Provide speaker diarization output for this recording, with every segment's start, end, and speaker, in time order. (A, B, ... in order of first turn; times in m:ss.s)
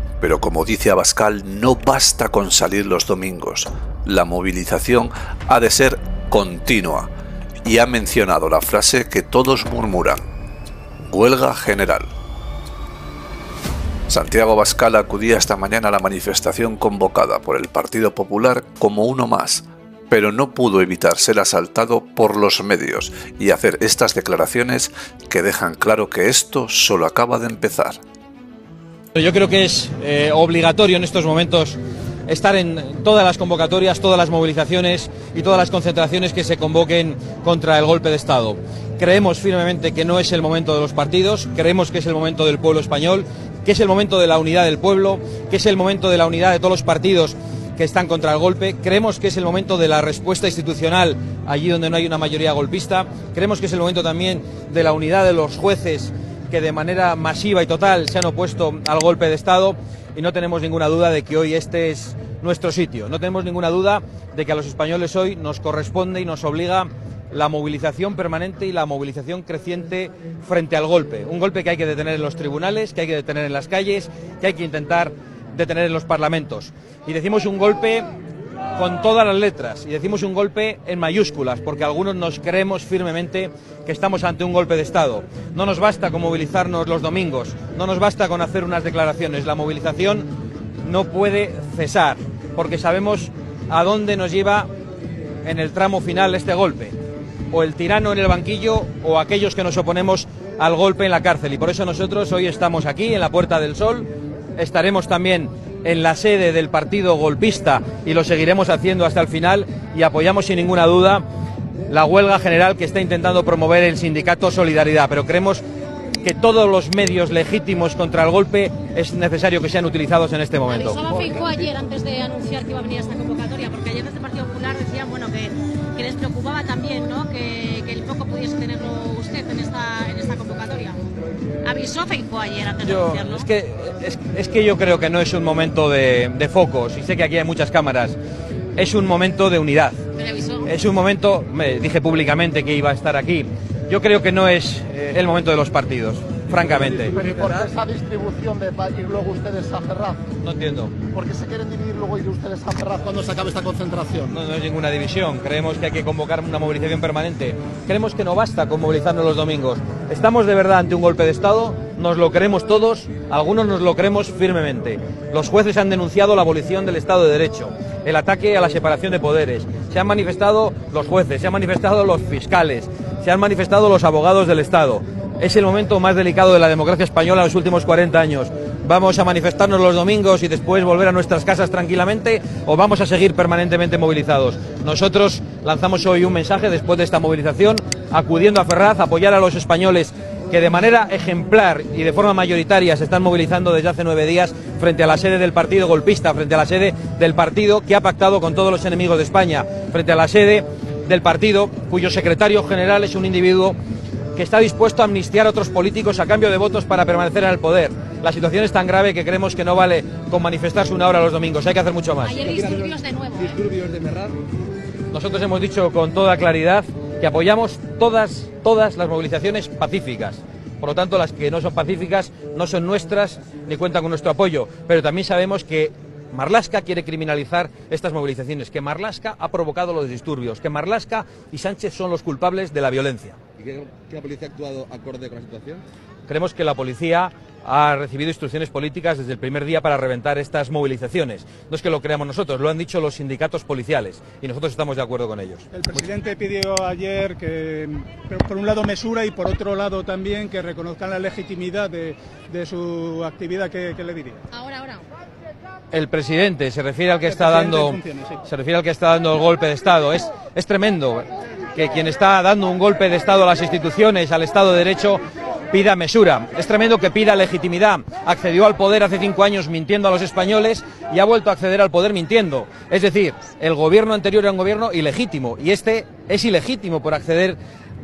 0:00.2-0:07.1 A
0:07.6-0:10.2 A
0:11.1-0:12.1 A
0:14.1-0:28.0 A
0:29.2-1:18.1 B
1:18.8-1:30.3 B
1:30.8-1:34.7 B
1:35.4-1:37.0 B
1:37.5-1:51.2 B
1:51.9-1:55.6 B
1:56.2-2:01.0 B
2:00.7-2:11.0 C
2:11.6-2:13.5 C
2:12.8-2:18.2 B
2:18.8-2:20.0 B
2:20.2-2:20.7 C
2:20.6-2:27.2 B
2:26.8-2:27.7 D
2:27.0-2:30.2 E
2:30.4-2:31.0 B
2:31.1-2:34.4 E
2:34.3-3:23.8 B
3:24.4-3:32.4 B
3:32.2-3:33.6 C
3:32.4-3:34.4 D
3:35.1-3:53.4 B
3:53.6-3:55.8 D
3:56.3-4:06.1 B
4:05.8-4:14.4 F
4:14.5-4:15.0 C
4:15.9-4:37.6 B
4:17.3-4:18.3 F